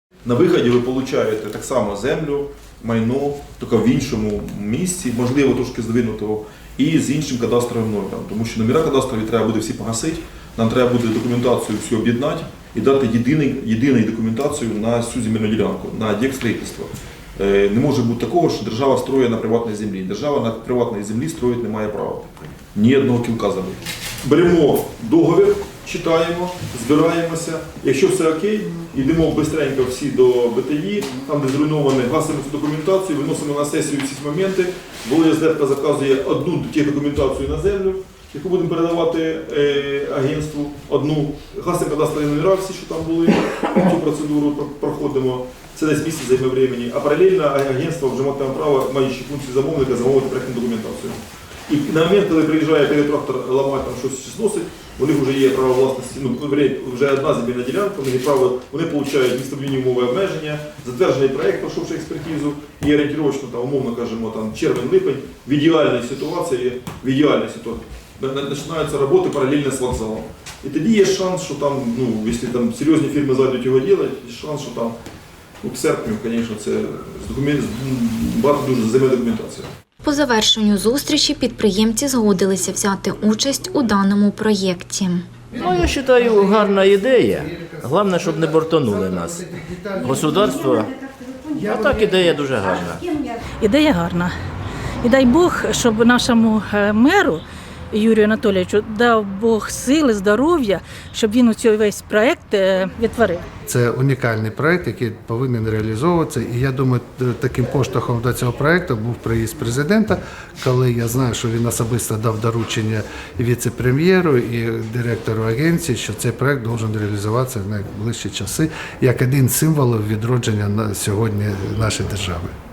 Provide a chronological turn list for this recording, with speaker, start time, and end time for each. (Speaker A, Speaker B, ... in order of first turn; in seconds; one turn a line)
Speaker A: 0.2-75.0
Speaker A: 75.6-79.7
Speaker B: 80.0-85.3
Speaker C: 85.6-86.2
Speaker D: 85.6-90.9
Speaker C: 87.5-87.8
Speaker C: 89.5-90.3
Speaker D: 91.6-93.0
Speaker E: 93.6-94.3
Speaker E: 95.0-103.5
Speaker C: 103.7-122.5